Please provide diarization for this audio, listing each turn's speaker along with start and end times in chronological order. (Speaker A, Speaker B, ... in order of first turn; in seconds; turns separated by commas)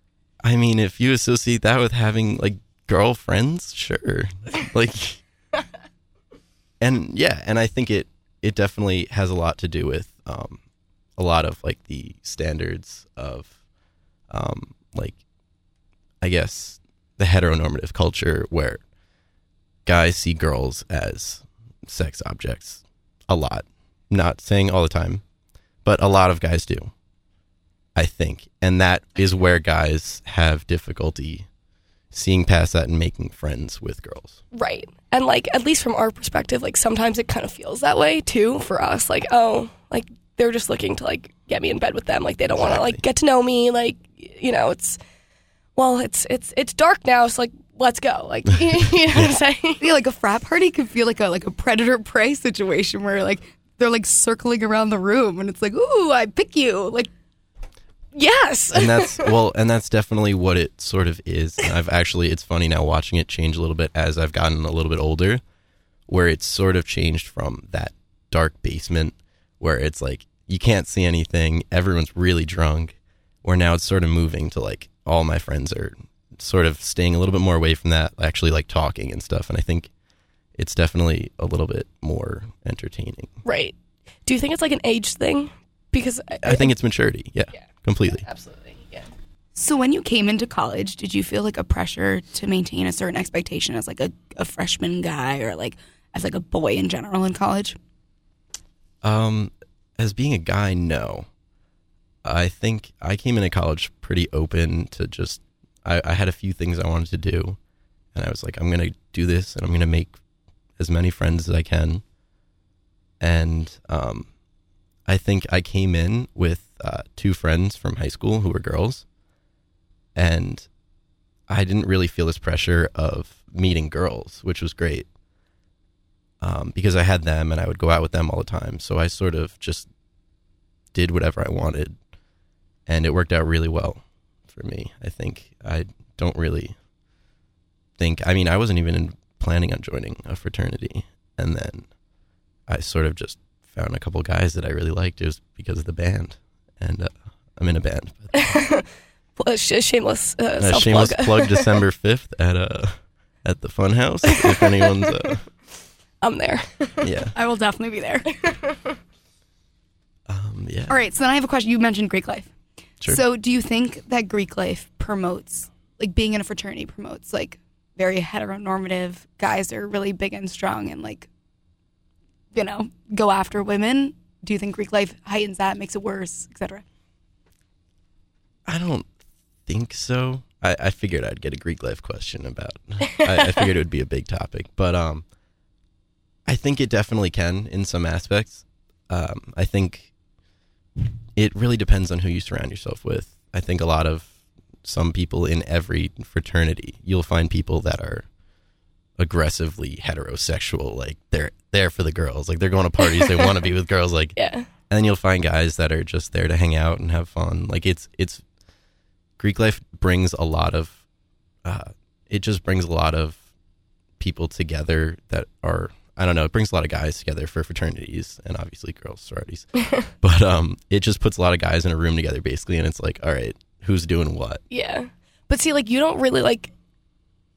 Speaker A: 0.4-5.2, Speaker A: 6.8-10.6, Speaker A: 11.2-13.5, Speaker A: 14.3-15.2, Speaker A: 16.2-18.8, Speaker A: 19.9-25.2, Speaker A: 25.9-26.9, Speaker A: 28.0-31.5, Speaker A: 32.1-34.4, Speaker B: 34.5-45.0, Speaker A: 42.6-43.0, Speaker B: 45.8-49.8, Speaker C: 49.8-57.1, Speaker B: 58.1-59.3, Speaker A: 58.7-65.4, Speaker A: 66.1-79.9, Speaker A: 80.5-83.3, Speaker B: 83.5-86.7, Speaker A: 86.4-88.3, Speaker B: 88.2-89.1, Speaker C: 89.5-97.8, Speaker A: 99.0-101.3, Speaker A: 102.2-107.6, Speaker A: 108.2-110.1, Speaker A: 110.8-112.0, Speaker A: 113.2-114.3, Speaker A: 115.1-119.0, Speaker A: 120.2-120.7, Speaker A: 121.5-125.1, Speaker A: 126.4-129.9, Speaker A: 130.9-131.9, Speaker A: 132.9-136.8, Speaker A: 138.0-141.9, Speaker A: 142.7-148.6, Speaker B: 148.3-151.7, Speaker A: 150.6-155.4, Speaker B: 154.3-155.1, Speaker B: 156.2-157.1, Speaker A: 157.0-157.3, Speaker C: 157.3-158.3, Speaker B: 158.4-158.8, Speaker A: 160.3-161.0, Speaker C: 160.9-162.5, Speaker C: 163.1-171.3, Speaker C: 172.5-176.8, Speaker A: 178.7-179.1, Speaker A: 179.7-185.2, Speaker A: 186.5-190.1, Speaker A: 191.4-194.3, Speaker A: 194.8-198.3, Speaker A: 199.2-204.4, Speaker B: 203.1-203.5, Speaker B: 204.4-204.7, Speaker A: 204.9-208.4, Speaker A: 209.4-211.0, Speaker A: 211.7-213.4, Speaker A: 214.2-224.6, Speaker B: 224.7-226.7